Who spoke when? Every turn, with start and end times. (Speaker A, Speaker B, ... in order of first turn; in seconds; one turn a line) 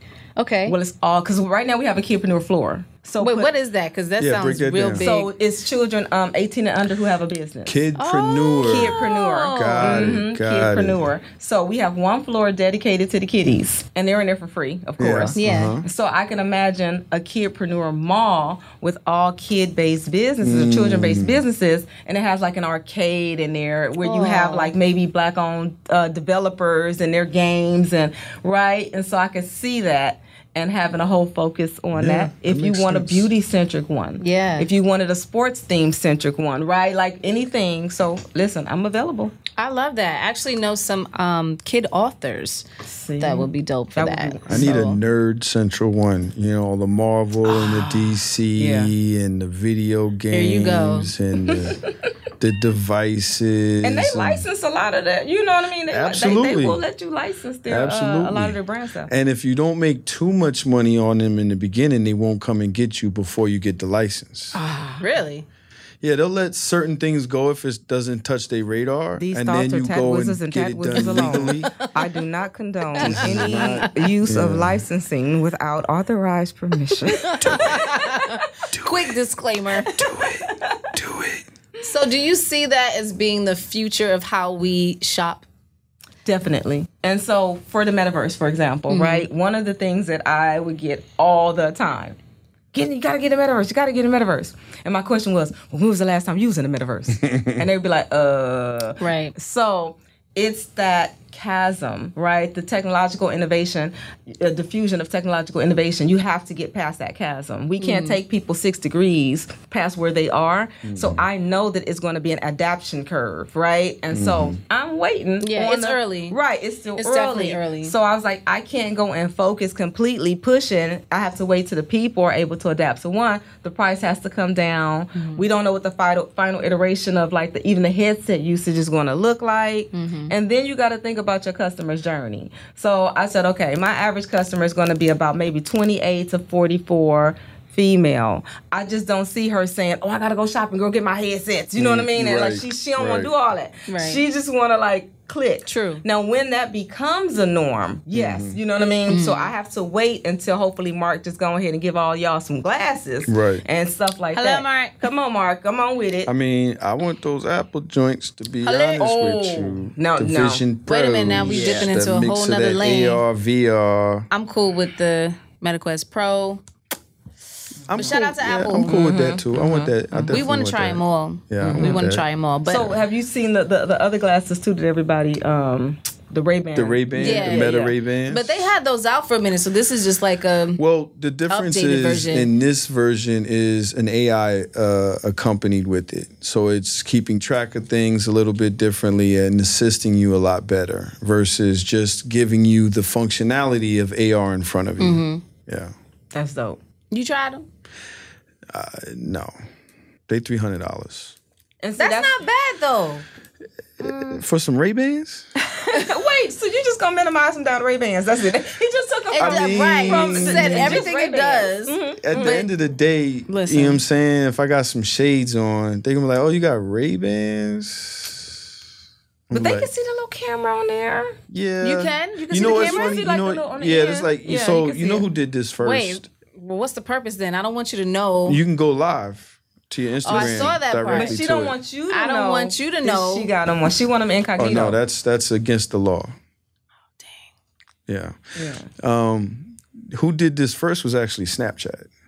Speaker A: 0.4-0.8
Speaker B: 0.7-3.5
Speaker A: 3.2-5.3
Speaker C: 4.2-5.0
Speaker B: 5.0-7.7
Speaker C: 7.7-11.1
Speaker A: 8.0-10.1
Speaker B: 8.6-39.3
Speaker C: 15.0-15.8
Speaker A: 15.3-15.8
Speaker C: 20.4-21.4
Speaker A: 24.0-24.7
Speaker C: 31.9-33.3
Speaker A: 34.2-34.7
Speaker A: 39.6-42.6
Speaker B: 42.8-44.8
Speaker A: 43.2-45.0
Speaker C: 44.5-51.8
Speaker B: 47.5-48.9
Speaker A: 50.3-51.1
Speaker B: 51.4-51.9
Speaker C: 52.4-54.4
Speaker B: 53.8-59.1
Speaker C: 55.9-56.8
Speaker C: 57.7-64.6
Speaker A: 64.5-65.5
Speaker B: 64.5-65.0
Speaker C: 66.0-71.8
Speaker B: 69.2-78.5
Speaker A: 71.0-71.8
Speaker A: 72.9-73.9
Speaker C: 73.0-74.8
Speaker A: 77.2-79.9
Speaker C: 77.4-77.8
Speaker C: 78.7-79.0
Speaker C: 79.9-81.4
Speaker B: 80.1-80.9
Speaker A: 81.8-85.4
Speaker B: 86.2-92.2
Speaker A: 88.9-89.3
Speaker B: 92.7-156.3
Speaker C: 97.2-97.6
Speaker A: 99.0-99.3
Speaker A: 107.8-108.2
Speaker C: 110.8-111.2
Speaker C: 114.1-114.6
Speaker A: 115.4-116.4
Speaker A: 117.0-117.9
Speaker A: 125.1-125.4
Speaker A: 129.9-130.3
Speaker C: 141.8-143.3
Speaker A: 143.9-144.2
Speaker A: 145.7-146.0
Speaker C: 148.1-148.6
Speaker A: 149.1-149.5
Speaker C: 153.2-153.6
Speaker A: 154.3-154.9
Speaker C: 156.3-164.3
Speaker B: 158.7-160.6
Speaker A: 160.9-163.2
Speaker B: 161.4-161.9
Speaker A: 164.3-166.6
Speaker B: 167.8-168.3
Speaker C: 167.9-172.2
Speaker A: 167.9-169.0
Speaker B: 168.8-170.4
Speaker A: 170.3-172.9
Speaker B: 171.6-172.0
Speaker B: 172.7-177.9
Speaker C: 176.7-178.6
Speaker A: 177.1-180.8
Speaker C: 180.8-195.9
Speaker A: 181.5-182.5
Speaker A: 195.0-195.4
Speaker B: 196.3-196.8
Speaker A: 197.1-197.7
Speaker C: 198.7-199.5
Speaker C: 200.3-201.3
Speaker B: 201.8-202.4
Speaker A: 202.0-203.2
Speaker C: 204.0-205.5
Speaker B: 204.0-204.3
Speaker B: 205.9-212.6
Speaker A: 209.3-212.7
Speaker C: 209.4-211.0
Speaker C: 212.2-218.5
Speaker A: 213.5-214.0
Speaker C: 219.5-219.9
Speaker B: 219.5-221.3
Speaker C: 221.5-226.3
Speaker A: 221.8-223.2
Speaker B: 222.6-225.2
Speaker A: 225.8-228.6
Speaker C: 228.5-231.7
Speaker A: 230.2-231.4
Speaker B: 230.3-235.0
Speaker A: 232.1-233.5
Speaker C: 234.6-236.3
Speaker A: 237.2-237.5
Speaker C: 238.1-238.3
Speaker B: 238.5-238.9
Speaker C: 238.9-242.1